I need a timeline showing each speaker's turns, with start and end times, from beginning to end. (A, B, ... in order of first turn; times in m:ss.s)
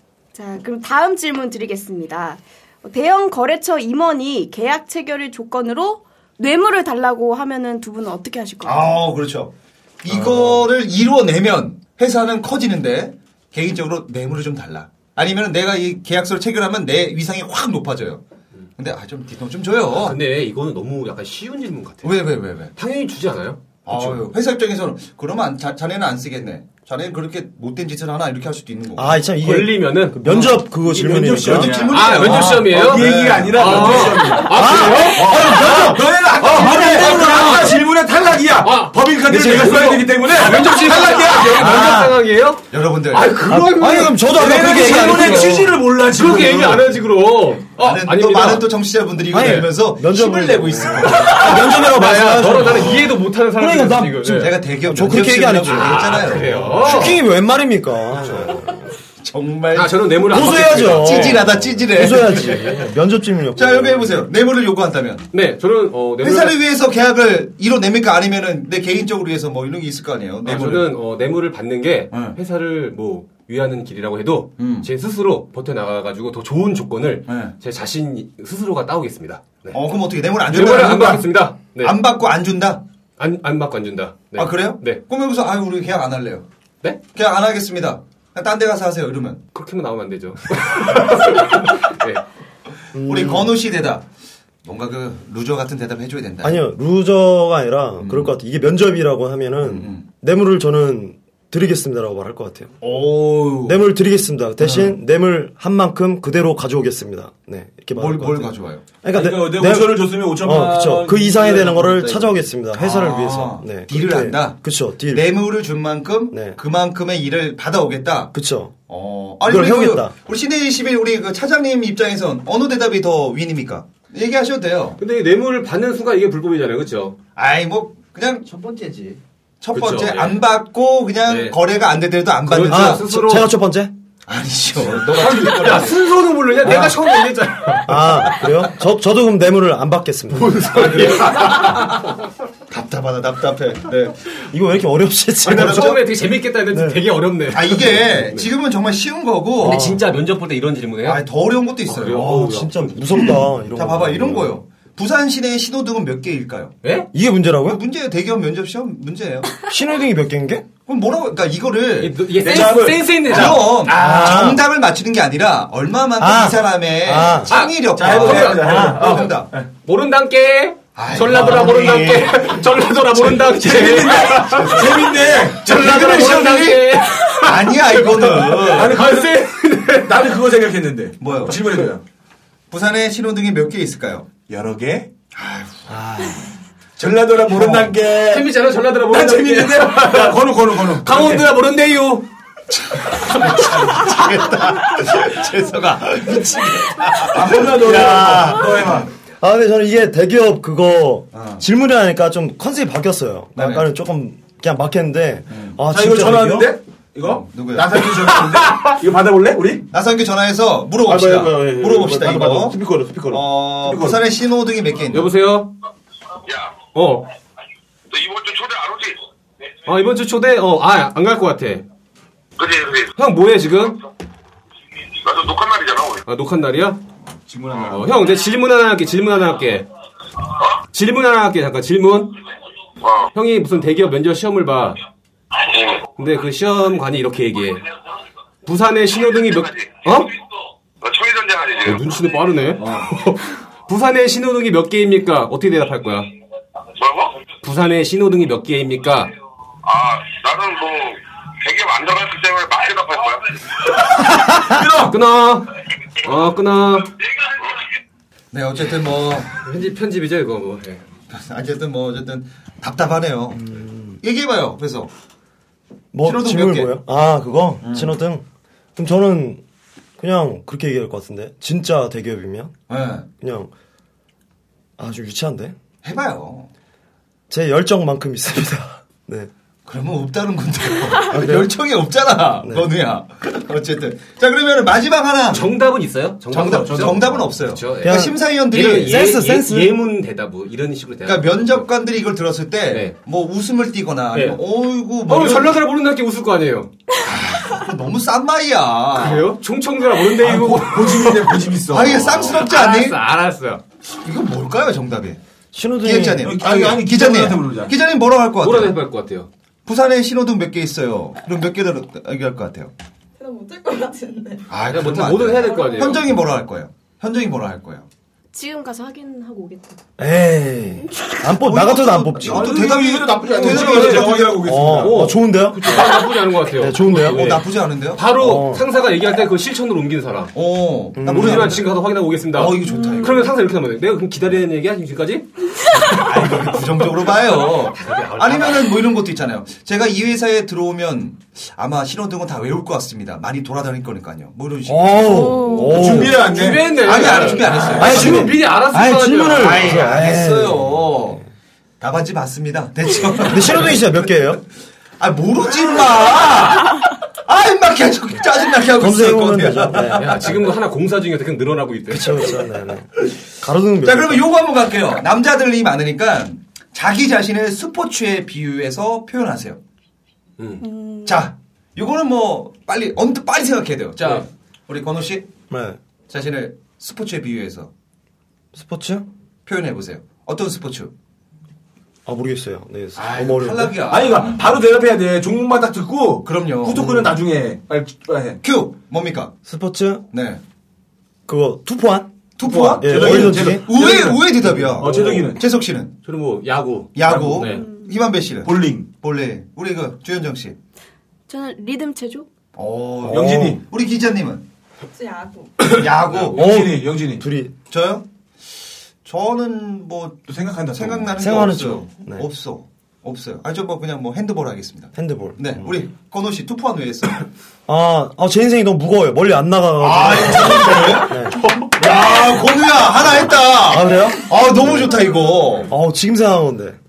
0:00.4-0:08.9 A
0:08.6-0:18.2 B
0:18.8-0:20.2 B
0:20.0-0:22.1 C
0:22.0-0:22.7 B
0:22.8-0:24.2 C
0:23.8-0:29.2 B
0:29.0-0:31.7 D
0:29.4-0:30.6 C
0:30.9-0:42.0 E
0:31.4-0:34.3 B
0:31.9-0:35.9 C
0:34.5-0:37.8 D
0:36.5-0:37.8 C
0:38.6-0:44.2 C
0:39.3-0:40.0 D
0:41.6-0:42.2 D
0:42.7-0:43.4 B
0:43.5-0:45.8 D
0:44.3-0:46.9 E
0:46.1-0:48.7 C
0:47.8-0:51.6 B
0:49.3-0:56.2 D
0:49.4-0:49.7 C
0:50.2-0:51.1 E
0:51.3-0:54.6 C
0:52.5-0:53.0 B
0:54.4-0:57.2 B
0:55.7-0:57.2 C
0:56.8-0:58.9 D
0:59.2-1:00.1 B
0:59.7-1:02.9 C
1:00.3-1:04.2 D
1:00.7-1:02.8 B
1:03.6-1:05.3 B
1:05.3-1:06.6 C
1:06.2-1:10.9 B
1:10.4-1:19.8 C
1:12.1-1:12.4 B
1:14.6-1:14.9 B
1:17.3-1:17.5 B
1:19.7-1:22.8 B
1:20.5-1:22.0 C
1:23.2-1:25.0 C
1:24.4-1:26.4 B
1:27.1-1:29.4 B
1:29.5-1:32.2 C
1:32.9-1:33.5 D
1:33.0-1:34.0 B
1:34.6-1:36.6 B
1:36.4-1:42.7 D
1:38.0-1:38.3 B
1:39.6-1:40.0 B
1:42.8-1:43.8 B
1:43.6-1:55.3 D
1:44.6-1:45.0 B
1:47.9-1:48.8 B
1:49.1-1:52.3 E
1:52.7-1:58.3 B
1:56.3-1:56.6 D
1:58.3-1:58.8 D
1:58.9-2:05.0 B
1:59.4-2:00.1 D
2:05.0-2:07.2 C
2:07.4-2:13.1 B
2:09.7-2:10.4 C
2:11.3-2:11.6 C
2:12.5-2:13.5 C
2:12.7-2:13.9 D
2:14.3-2:16.0 B
2:15.1-2:18.2 C
2:16.6-2:17.0 D
2:17.9-2:21.1 D
2:20.3-2:22.0 C
2:20.9-2:21.8 B
2:22.7-2:24.4 B
2:24.5-2:26.0 D
2:25.4-2:28.5 C
2:25.5-2:26.0 B
2:26.7-2:27.0 D
2:27.5-2:29.9 B
2:29.6-2:30.0 D
2:29.6-2:31.2 C
2:31.0-2:32.4 B
2:31.9-2:33.3 C
2:32.1-2:34.6 D
2:33.8-2:36.8 B
2:36.8-2:37.1 C
2:37.1-2:37.8 D
2:37.7-2:39.6 B
2:39.7-2:40.7 D
2:40.9-2:42.2 B
2:42.0-2:43.7 C
2:42.3-2:44.4 E
2:43.3-2:49.5 B
2:43.9-2:44.6 D
2:46.2-2:47.5 D
2:47.5-2:49.3 C
2:48.0-2:49.7 E
2:49.8-2:55.0 C
2:51.0-2:52.5 B
2:53.2-2:57.0 E
2:54.7-2:55.0 B
2:55.6-3:00.3 C
2:57.4-2:59.0 B
2:58.7-2:59.4 E
3:00.0-3:02.0 E
3:01.2-3:01.6 B
3:02.7-3:04.3 B
3:04.5-3:05.1 E
3:05.4-3:06.4 B
3:05.9-3:06.4 D
3:07.0-3:08.5 E
3:07.5-3:07.9 B
3:08.3-3:10.4 C
3:09.0-3:11.5 E
3:10.9-3:12.3 C
3:12.7-3:19.1 B
3:13.1-3:13.8 C
3:17.3-3:19.1 E
3:17.9-3:18.5 D
3:19.4-3:26.8 D
3:21.3-3:21.6 B
3:23.6-3:23.9 B
3:25.5-3:25.8 B
3:25.9-3:29.8 E
3:27.2-3:28.2 B
3:29.9-3:35.3 B
3:31.0-3:34.2 E
3:35.1-3:35.7 C
3:36.9-3:37.3 C
3:38.1-3:39.2 F
3:39.9-3:41.9 C
3:42.6-3:43.1 F
3:43.2-3:44.0 C
3:45.2-3:46.2 F
3:46.3-3:47.0 C
3:47.5-3:48.3 E
3:47.8-3:49.9 C
3:50.9-3:52.4 C
3:53.0-3:53.3 F
3:53.3-3:55.0 C
3:55.6-3:56.0 F
3:56.2-3:57.8 C
3:58.6-4:00.3 C
4:01.0-4:02.1 F
4:01.8-4:06.3 C
4:02.8-4:03.1 E
4:07.0-4:07.3 F
4:07.6-4:09.3 C
4:09.9-4:13.6 F
4:14.5-4:15.2 E
4:15.0-4:15.7 C
4:16.2-4:17.1 C
4:18.5-4:19.5 B
4:19.6-4:21.0 C
4:21.3-4:25.1 B
4:23.7-4:24.2 D
4:26.1-4:28.4 D
4:26.2-4:26.9 B
4:27.8-4:28.1 B
4:29.0-4:29.6 D
4:30.2-4:32.8 D
4:32.9-4:33.3 B
4:33.4-4:33.7 D
4:35.0-4:35.8 D
4:36.0-4:36.7 B
4:37.5-4:39.5 D
4:39.9-4:45.7 B
4:41.3-4:41.7 D
4:45.5-4:51.9 C
4:46.5-4:47.4 E
4:46.6-4:49.2 B
4:48.0-4:48.4 D
4:49.0-4:50.0 D
4:51.2-4:55.8 B
4:52.9-4:53.2 C
4:54.3-4:54.6 C
4:55.3-4:56.9 C
4:57.2-4:59.5 B
4:59.2-5:01.6 C
5:00.4-5:02.5 E
5:01.9-5:03.2 B
5:02.3-5:03.8 C
5:04.2-5:05.4 B
5:05.7-5:06.5 D
5:06.0-5:09.0 B
5:06.4-5:08.0 E
5:08.6-5:09.5 C
5:09.9-5:12.9 B
5:13.4-5:14.7 G
5:14.7-5:18.1 B
5:14.9-5:16.2 C
5:15.5-5:16.2 G
5:18.5-5:20.0 A
5:20.2-5:22.9 D
5:21.4-5:24.8 B
5:22.4-5:25.3 E
5:23.6-5:30.5 C
5:24.6-5:26.0 D
5:26.8-5:27.6 D
5:27.3-5:28.2 B
5:28.4-5:28.8 D
5:30.6-5:31.9 B
5:31.2-5:31.8 D
5:31.2-5:36.8 C
5:32.5-5:33.5 B
5:36.1-5:46.2 B
5:37.9-5:38.9 C
5:44.9-5:46.5 D
5:45.3-5:46.0 A
5:45.8-5:47.0 E
5:46.4-5:50.0 C
5:47.0-5:48.5 B
5:48.0-5:51.1 D
5:49.5-5:51.4 B
5:52.0-5:54.0 B
5:53.5-5:54.6 D
5:55.2-6:00.6 B
5:59.0-6:00.5 D
6:00.2-6:02.6 C
6:02.1-6:04.5 D
6:04.0-6:09.8 B
6:10.8-6:11.5 A
6:11.2-6:15.5 B
6:15.7-6:16.0 D
6:16.3-6:17.9 B
6:18.7-6:19.3 D
6:19.7-6:21.1 B
6:22.3-6:24.0 D
6:23.2-6:24.6 B
6:24.1-6:28.6 E
6:26.4-6:27.3 B
6:28.6-6:29.5 B
6:29.7-6:30.2 D
6:30.3-6:30.6 B
6:31.5-6:32.4 D
6:32.6-6:36.1 B
6:32.6-6:35.6 E
6:33.0-6:33.9 D
6:35.0-6:35.6 C
6:36.2-6:37.8 C
6:37.2-6:40.8 B
6:37.3-6:37.7 E
6:37.7-6:38.1 A
6:38.6-6:39.1 E
6:41.5-6:42.5 A
6:42.8-6:44.6 B
6:43.2-6:43.8 E
6:45.1-6:45.9 G
6:45.9-6:46.5 C
6:45.9-6:46.7 B
6:46.3-6:47.5 E
6:46.6-6:47.7 D
6:47.9-6:48.3 B
6:49.2-6:57.5 B
6:50.5-6:51.5 E
6:51.4-6:52.5 D
6:55.2-6:55.9 D
6:57.9-7:01.6 D
7:00.0-7:01.4 B
7:02.0-7:05.9 B
7:03.8-7:05.3 D
7:05.9-7:07.0 D